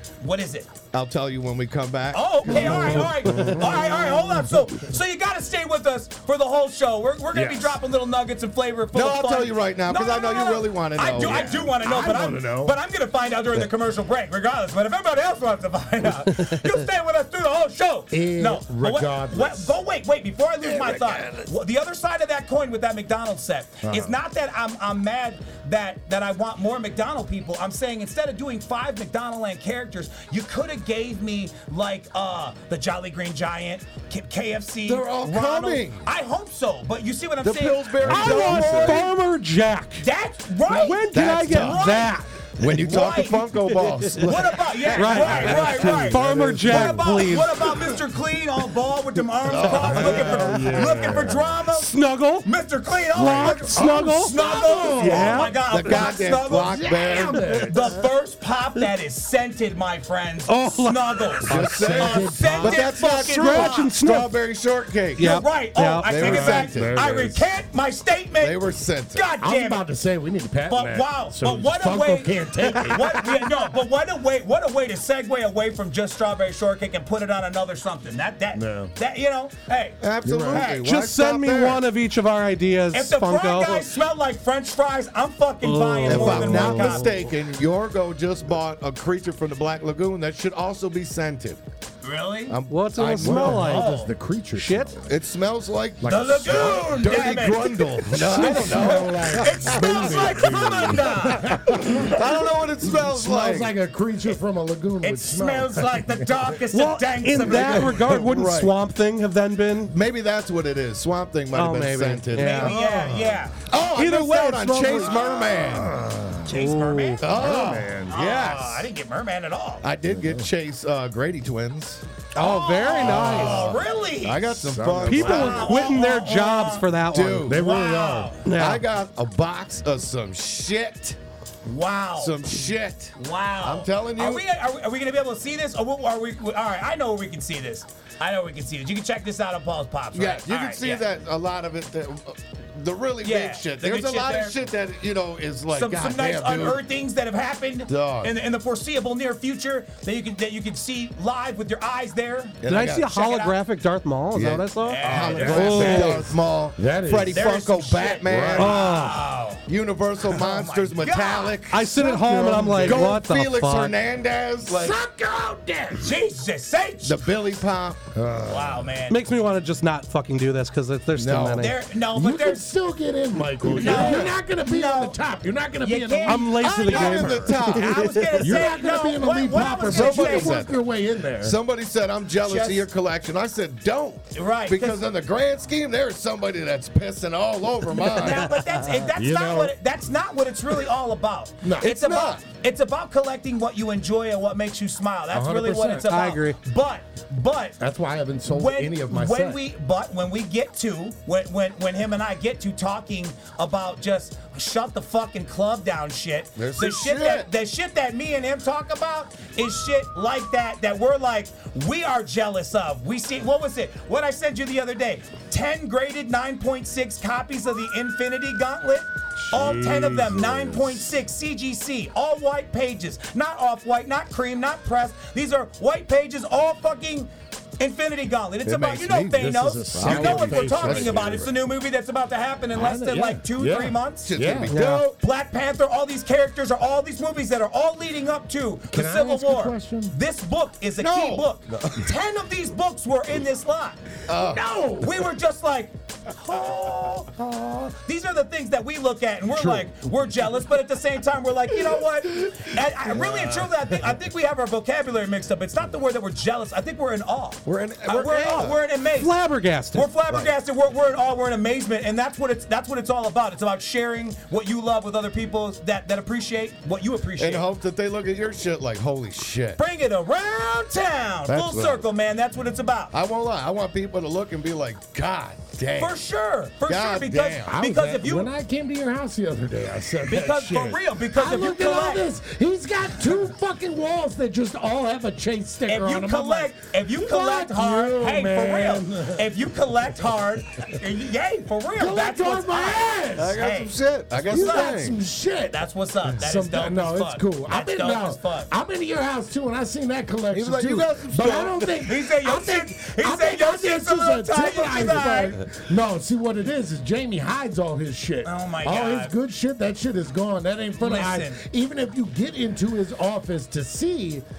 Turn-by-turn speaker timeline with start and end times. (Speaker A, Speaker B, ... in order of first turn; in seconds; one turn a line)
Speaker A: 0.2-0.7
Speaker B: 0.9-3.7
Speaker A: 2.1-39.1
Speaker C: 2.5-4.3
Speaker C: 7.3-7.8
Speaker B: 8.9-11.7
Speaker C: 11.4-12.8
Speaker C: 18.1-19.8
Speaker B: 20.6-21.5
Speaker C: 23.8-24.2
Speaker B: 34.9-36.1
Speaker B: 37.4-39.1
Speaker D: 38.0-40.1
Speaker A: 40.0-43.5
Speaker D: 40.7-42.3
Speaker B: 41.1-41.9
Speaker B: 42.6-46.1
Speaker D: 43.7-44.0
Speaker A: 44.2-63.9
Speaker D: 44.9-47.9
Speaker C: 45.1-47.4
Speaker B: 49.4-51.1
Speaker C: 49.7-51.6
Speaker D: 51.7-52.5
Speaker D: 53.1-54.4
Speaker C: 53.1-58.0
Speaker D: 55.0-55.6
Speaker B: 55.6-57.6
Speaker D: 60.5-62.0
Speaker B: 61.5-65.4
Speaker C: 61.5-62.9
Speaker D: 62.8-64.3
Speaker D: 65.2-66.5
Speaker A: 65.2-69.8
Speaker B: 66.0-67.0
Speaker C: 66.2-67.4
Speaker B: 68.4-69.3
Speaker C: 69.4-73.4
Speaker A: 70.7-80.8
Speaker C: 78.5-78.9
Speaker B: 80.0-81.8
Speaker C: 80.2-80.7
Speaker D: 80.8-83.9
Speaker A: 82.9-87.1
Speaker D: 85.6-87.2
Speaker B: 86.1-91.6
Speaker C: 86.1-87.2
Speaker A: 92.0-92.6
Speaker B: 92.5-93.8
Speaker D: 92.7-93.9
Speaker C: 93.2-95.2
Speaker A: 93.6-94.1
Speaker D: 94.5-95.0
Speaker B: 95.1-100.9
Speaker C: 96.0-97.5
Speaker A: 96.0-102.4
Speaker C: 98.1-102.2
Speaker B: 101.5-103.7
Speaker C: 102.8-106.5
Speaker A: 105.0-108.1
Speaker D: 106.7-109.9
Speaker C: 107.5-107.9
Speaker B: 107.5-108.7
Speaker B: 109.9-113.1
Speaker D: 111.5-112.8
Speaker A: 112.3-113.6
Speaker C: 112.7-113.4
Speaker B: 113.7-116.0
Speaker D: 113.8-115.7
Speaker A: 114.9-115.5
Speaker C: 115.5-116.6
Speaker A: 116.5-117.2
Speaker D: 116.5-117.2
Speaker B: 117.2-118.9
Speaker C: 117.2-118.2
Speaker A: 118.1-119.9
Speaker B: 119.8-122.0
Speaker C: 120.0-120.5
Speaker D: 122.3-123.8
Speaker A: 122.4-124.7
Speaker B: 123.0-125.7
Speaker C: 123.0-123.8
Speaker C: 124.5-125.7
Speaker D: 125.0-127.5
Speaker A: 125.2-126.9
Speaker B: 127.1-127.7
Speaker C: 127.4-128.3
Speaker A: 127.5-128.5
Speaker D: 128.4-128.8
Speaker B: 128.5-131.2
Speaker A: 131.7-132.4
Speaker B: 132.2-134.4
Speaker A: 133.2-141.1
Speaker B: 140.1-146.8
Speaker A: 143.2-144.6
Speaker A: 145.7-153.6
Speaker B: 147.9-148.3
Speaker B: 152.6-153.1
Speaker D: 152.7-156.3
Speaker B: 154.3-162.1
Speaker A: 154.8-156.1
Speaker C: 155.1-157.5
Speaker A: 157.3-159.7
Speaker C: 158.2-158.8
Speaker D: 158.6-159.3
Speaker A: 160.3-161.6
Speaker D: 161.7-163.9
Speaker C: 161.7-163.2
Speaker B: 162.7-165.0
Speaker C: 164.7-166.2
Speaker A: 166.0-167.2
Speaker B: 167.0-168.0
Speaker C: 168.1-168.9
Speaker A: 168.4-169.2
Speaker D: 169.1-171.8
Speaker B: 171.2-171.7
Speaker A: 171.6-172.7
Speaker C: 172.1-177.5
Speaker B: 173.7-174.3
Speaker A: 173.7-175.2
Speaker A: 175.8-180.6
Speaker D: 176.3-178.4
Speaker B: 176.6-178.3
Speaker C: 178.4-181.6
Speaker B: 179.9-180.8
Speaker B: 181.4-188.6
Speaker A: 182.4-182.9
Speaker A: 184.3-185.0
Speaker A: 187.9-197.8
Speaker C: 189.2-189.8
Speaker C: 191.6-191.9
Speaker B: 191.8-192.4
Speaker C: 195.3-196.1
Speaker D: 196.1-196.6
Speaker C: 197.8-199.6
Speaker A: 198.5-234.3
Speaker B: 206.6-207.5
Speaker C: 219.4-221.0
Speaker B: 219.6-220.2
Speaker B: 228.7-229.4
Speaker C: 229.3-231.4
Speaker B: 229.9-231.5
Speaker C: 232.7-235.1
Speaker B: 234.2-235.1
Speaker D: 234.7-235.1
Speaker A: 235.2-244.0
Speaker C: 238.9-240.2
Speaker B: 241.0-242.1
Speaker B: 244.3-244.7
Speaker C: 244.4-245.3
Speaker A: 245.0-259.4
Speaker C: 249.5-250.1
Speaker B: 253.1-253.7
Speaker B: 257.6-258.8
Speaker D: 259.2-260.1
Speaker A: 259.9-267.7
Speaker B: 260.3-260.5
Speaker B: 267.4-269.8
Speaker A: 269.8-273.1
Speaker B: 271.5-272.1
Speaker B: 273.1-276.2
Speaker A: 276.0-278.5
Speaker B: 276.9-277.8
Speaker C: 277.7-289.5
Speaker A: 280.2-282.3
Speaker A: 285.9-295.1
Speaker C: 292.0-293.6
Speaker B: 293.4-295.2
Speaker C: 294.5-314.4
Speaker A: 295.7-298.7
Speaker B: 300.5-302.0
Speaker A: 302.1-305.6
Speaker A: 308.4-309.3
Speaker A: 311.0-311.6